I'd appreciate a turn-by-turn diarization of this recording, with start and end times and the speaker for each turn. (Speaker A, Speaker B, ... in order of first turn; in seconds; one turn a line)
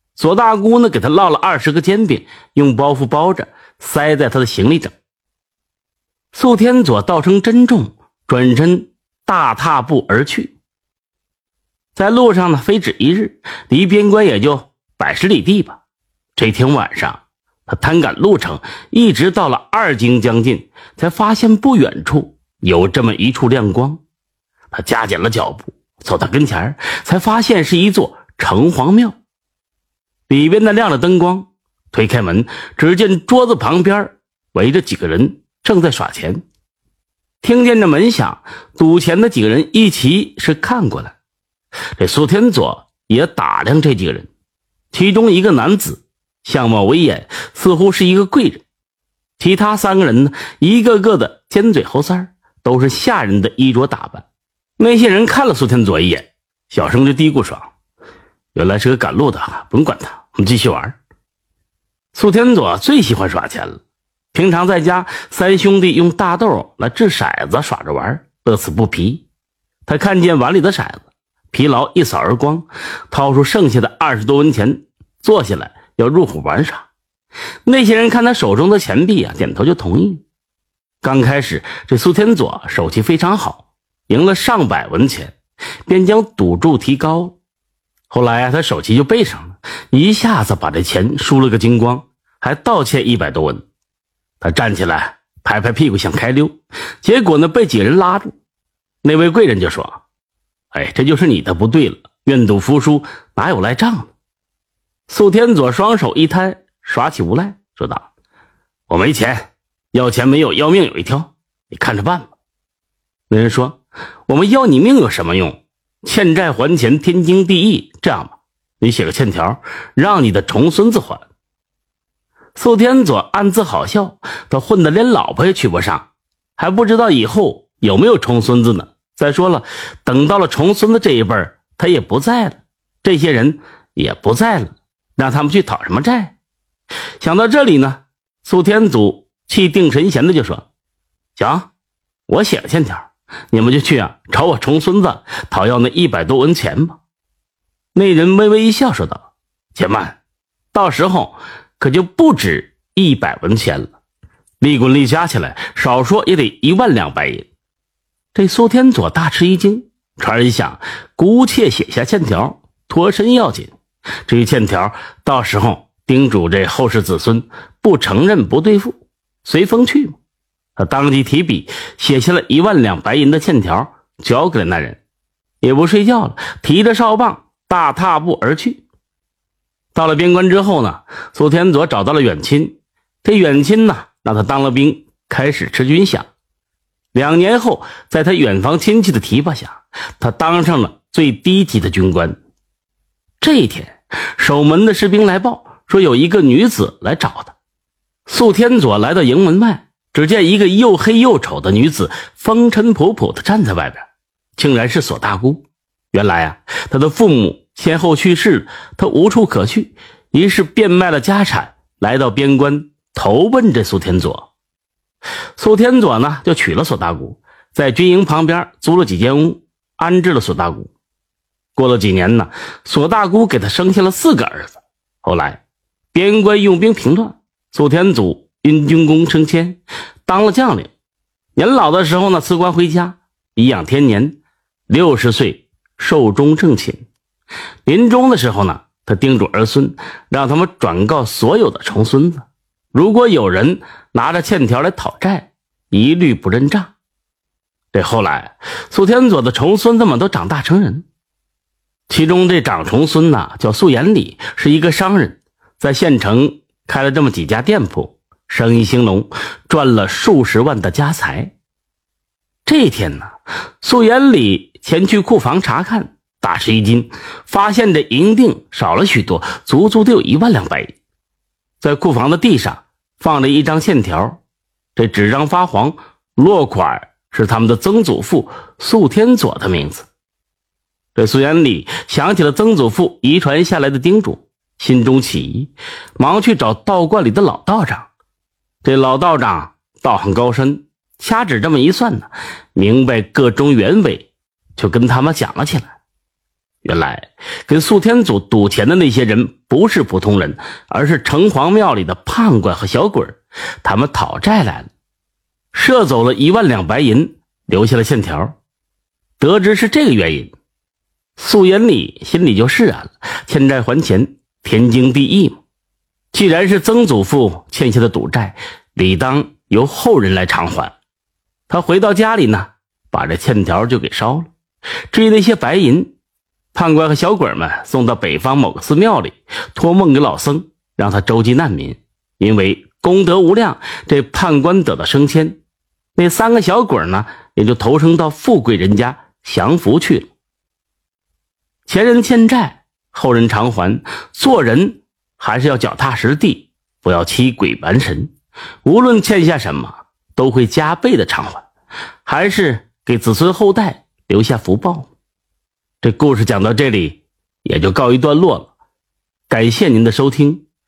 Speaker A: 0.1-4.9
Speaker A: 6.3-10.5
Speaker A: 11.9-15.8
Speaker A: 16.4-24.0
Speaker A: 24.7-29.2
Speaker A: 30.3-36.4
Speaker A: 37.4-41.1
Speaker A: 42.0-44.3
Speaker A: 44.9-48.6
Speaker A: 49.4-54.2
Speaker A: 54.8-57.7
Speaker A: 58.5-60.9
Speaker A: 62.1-63.8
Speaker A: 64.3-69.2
Speaker A: 69.8-76.9
Speaker A: 77.7-80.2
Speaker A: 81.0-87.3
Speaker A: 88.1-93.6
Speaker A: 94.4-98.4
Speaker A: 99.0-100.0
Speaker A: 100.7-104.1
Speaker A: 105.1-108.1
Speaker A: 108.9-112.3
Speaker A: 113.3-121.2
Speaker A: 122.5-136.3
Speaker A: 137.2-140.7
Speaker A: 141.3-141.7
Speaker A: 142.3-147.0
Speaker A: 147.9-150.2
Speaker A: 150.7-153.9
Speaker A: 154.6-157.5
Speaker A: 158.3-163.7
Speaker A: 164.2-170.2
Speaker A: 170.8-175.0
Speaker A: 175.6-178.8
Speaker A: 179.9-186.3
Speaker A: 187.1-192.4
Speaker A: 193.4-197.5
Speaker A: 198.3-214.5
Speaker A: 215.6-220.9
Speaker A: 221.7-225.6
Speaker A: 226.1-230.9
Speaker A: 231.6-234.4
Speaker A: 234.9-237.0
Speaker A: 237.8-246.9
Speaker A: 247.9-251.0
Speaker A: 252.1-261.5
Speaker A: 262.6-270.9
Speaker A: 271.8-274.4
Speaker A: 274.9-280.1
Speaker A: 281.1-288.1
Speaker A: 288.8-295.9
Speaker A: 296.8-304.9
Speaker A: 305.7-308.5
Speaker A: 309.4-310.5
Speaker A: 311.4-315.6
Speaker A: 316.3-320.9
Speaker A: 321.7-324.5
Speaker A: 325.1-326.1
Speaker A: 326.7-335.6
Speaker A: 336.1-340.3
Speaker A: 341.9-348.3
Speaker A: 348.8-351.6
Speaker A: 352.2-355.1
Speaker A: 356.0-358.7
Speaker A: 359.5-360.6